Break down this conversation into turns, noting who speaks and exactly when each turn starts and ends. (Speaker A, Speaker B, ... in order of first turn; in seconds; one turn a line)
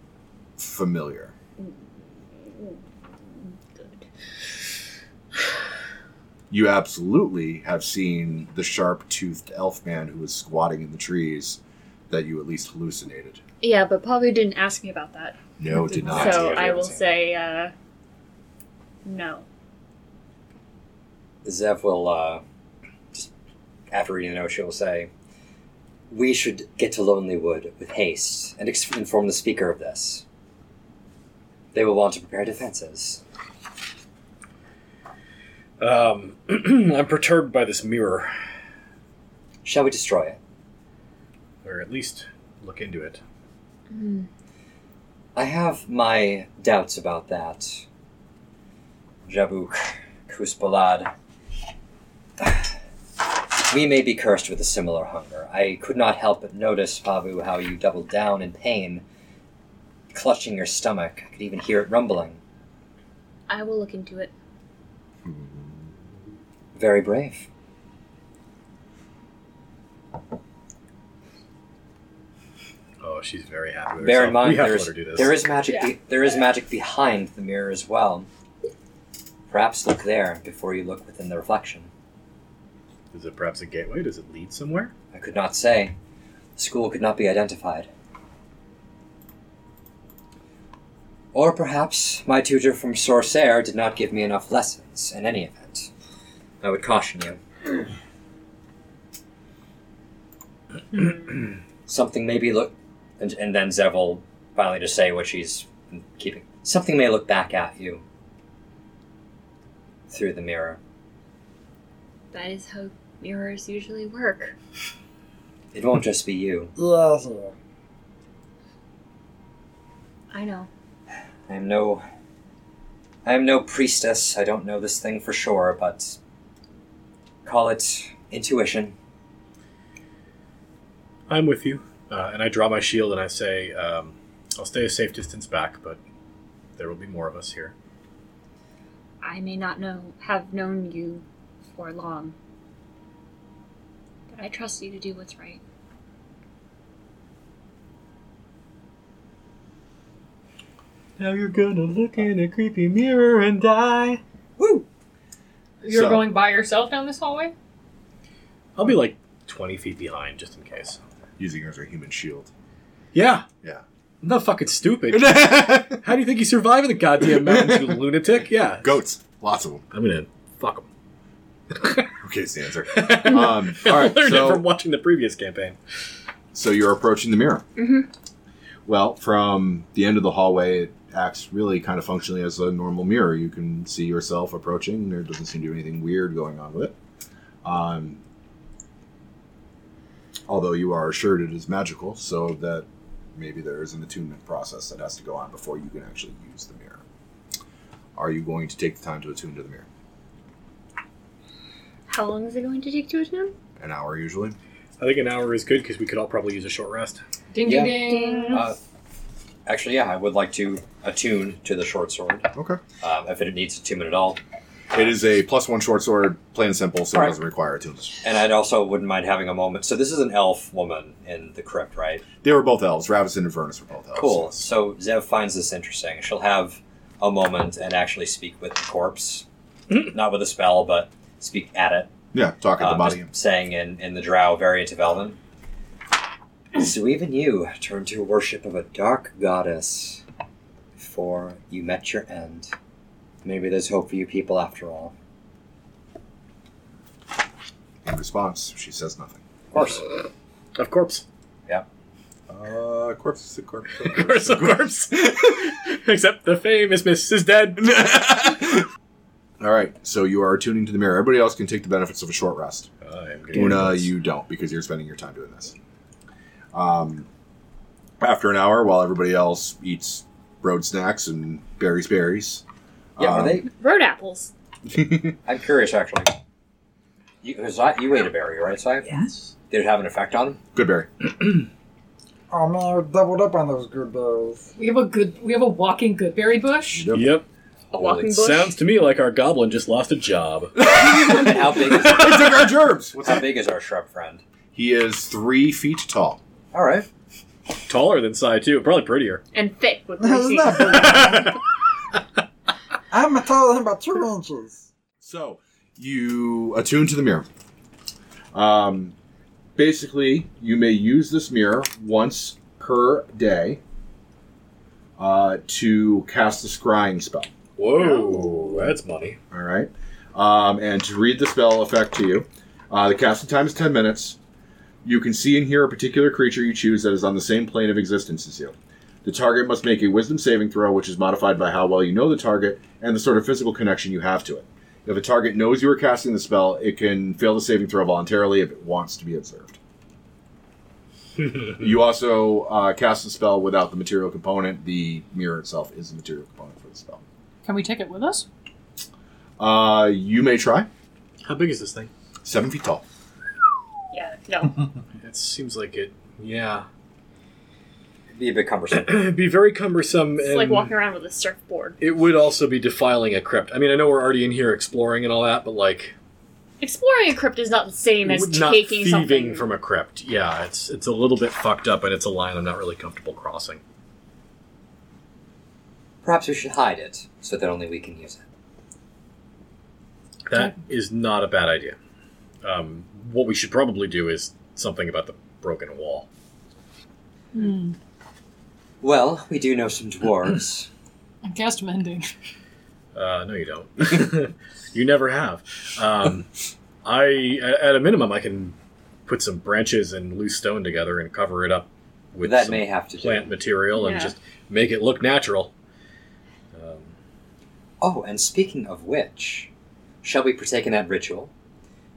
Speaker A: 0.6-1.3
Speaker B: 2.5-2.8
Speaker B: 3.5-4.0
Speaker A: 6.5-11.6
Speaker A: 12.1-13.4
Speaker B: 13.6-15.4
Speaker A: 15.6-16.6
Speaker B: 16.0-17.7
Speaker C: 16.1-17.2
Speaker B: 19.1-19.4
Speaker C: 21.4-22.4
Speaker C: 23.9-25.1
Speaker C: 26.1-30.2
Speaker C: 31.7-33.2
Speaker D: 35.8-38.3
Speaker C: 39.6-40.4
Speaker D: 41.6-43.2
Speaker B: 43.9-44.3
Speaker C: 45.4-47.9
Speaker C: 49.3-51.1
Speaker C: 52.4-52.7
Speaker C: 53.7-59.0
Speaker C: 60.1-62.4
Speaker B: 63.5-64.3
Speaker A: 65.3-65.8
Speaker C: 66.8-67.5
Speaker D: 73.0-75.4
Speaker C: 74.0-78.3
Speaker C: 79.5-81.9
Speaker D: 83.1-84.9
Speaker C: 85.1-86.0
Speaker C: 86.6-87.9
Speaker C: 91.3-95.9
Speaker C: 96.6-97.4
Speaker C: 101.9-108.0
Speaker C: 110.1-110.8
Speaker B: 112.3-114.5
Speaker C: 115.7-116.7
Speaker E: 116.8-117.5
Speaker B: 120.3-120.7
Speaker C: 121.5-122.0
Speaker C: 123.2-126.2
Speaker C: 127.5-128.9
Speaker D: 131.3-136.0
Speaker D: 136.8-137.7
Speaker B: 139.2-142.3
Speaker B: 144.3-145.6
Speaker D: 151.2-154.2
Speaker F: 155.8-157.5
Speaker A: 155.9-156.2
Speaker D: 158.8-161.0
Speaker A: 161.4-162.5
Speaker D: 163.1-163.5
Speaker D: 164.2-168.9
Speaker A: 165.1-166.0
Speaker A: 167.2-168.0
Speaker A: 168.8-169.8
Speaker D: 169.9-170.9
Speaker D: 171.7-172.1
Speaker A: 172.2-174.7
Speaker D: 172.9-175.8
Speaker A: 176.5-177.7
Speaker B: 177.8-178.1
Speaker A: 178.9-187.0
Speaker A: 187.6-188.2
Speaker A: 190.5-197.0
Speaker A: 198.2-199.9
Speaker B: 202.1-203.5
Speaker A: 203.8-204.6
Speaker D: 205.0-207.2
Speaker F: 207.5-208.6
Speaker C: 207.6-208.8
Speaker B: 207.9-208.7
Speaker C: 209.7-212.5
Speaker A: 212.5-212.8
Speaker C: 213.0-214.4
Speaker A: 214.9-218.2
Speaker C: 218.2-222.2
Speaker A: 222.4-224.7
Speaker C: 224.2-232.1
Speaker A: 232.3-233.3
Speaker C: 232.8-235.4
Speaker C: 236.7-240.2
Speaker C: 241.0-242.7
Speaker C: 243.4-245.1
Speaker A: 248.1-249.4
Speaker C: 249.7-250.0
Speaker D: 250.8-251.2
Speaker A: 252.5-254.9
Speaker D: 254.0-258.2
Speaker A: 257.8-258.9
Speaker A: 259.6-262.9
Speaker D: 263.0-264.1
Speaker A: 263.5-265.8
Speaker A: 266.7-267.3
Speaker A: 268.2-272.6
Speaker A: 273.2-273.6
Speaker C: 273.2-273.7
Speaker B: 273.7-274.5
Speaker A: 274.9-275.4
Speaker C: 275.4-276.4
Speaker C: 277.4-279.1
Speaker D: 279.1-279.5
Speaker C: 279.7-280.6
Speaker A: 280.7-281.1
Speaker E: 282.5-284.7
Speaker F: 284.8-287.1
Speaker A: 286.9-287.4
Speaker D: 287.1-290.8
Speaker B: 287.9-288.8
Speaker A: 290.8-293.3
Speaker C: 291.1-294.4
Speaker A: 294.7-296.4
Speaker C: 296.7-297.1
Speaker D: 297.9-299.4
Speaker B: 299.5-301.5
Speaker E: 300.2-301.6
Speaker D: 300.9-301.5
Speaker E: 303.1-304.9
Speaker A: 305.2-307.5
Speaker A: 308.5-309.1
Speaker A: 309.8-313.8
Speaker A: 315.2-317.5
Speaker D: 317.8-319.4
Speaker B: 318.0-318.7
Speaker A: 319.5-324.4
Speaker A: 325.0-339.8
Speaker A: 341.7-347.2
Speaker F: 347.6-348.5
Speaker A: 349.6-350.9
Speaker D: 351.4-352.1
Speaker A: 352.4-353.0
Speaker B: 354.1-354.8
Speaker D: 355.2-356.9
Speaker C: 358.3-359.3
Speaker D: 358.9-360.9
Speaker B: 360.4-362.0
Speaker D: 362.0-366.1
Speaker B: 366.8-369.7
Speaker D: 368.2-373.8
Speaker C: 376.2-378.4
Speaker D: 380.5-382.0
Speaker D: 382.6-386.3
Speaker F: 387.5-388.0
Speaker C: 389.0-390.9
Speaker F: 391.4-392.3
Speaker D: 393.1-396.5
Speaker D: 397.0-398.8
Speaker D: 399.3-405.7
Speaker C: 402.4-403.5
Speaker B: 403.9-404.3
Speaker D: 406.7-407.1
Speaker C: 408.0-409.7
Speaker C: 410.2-411.5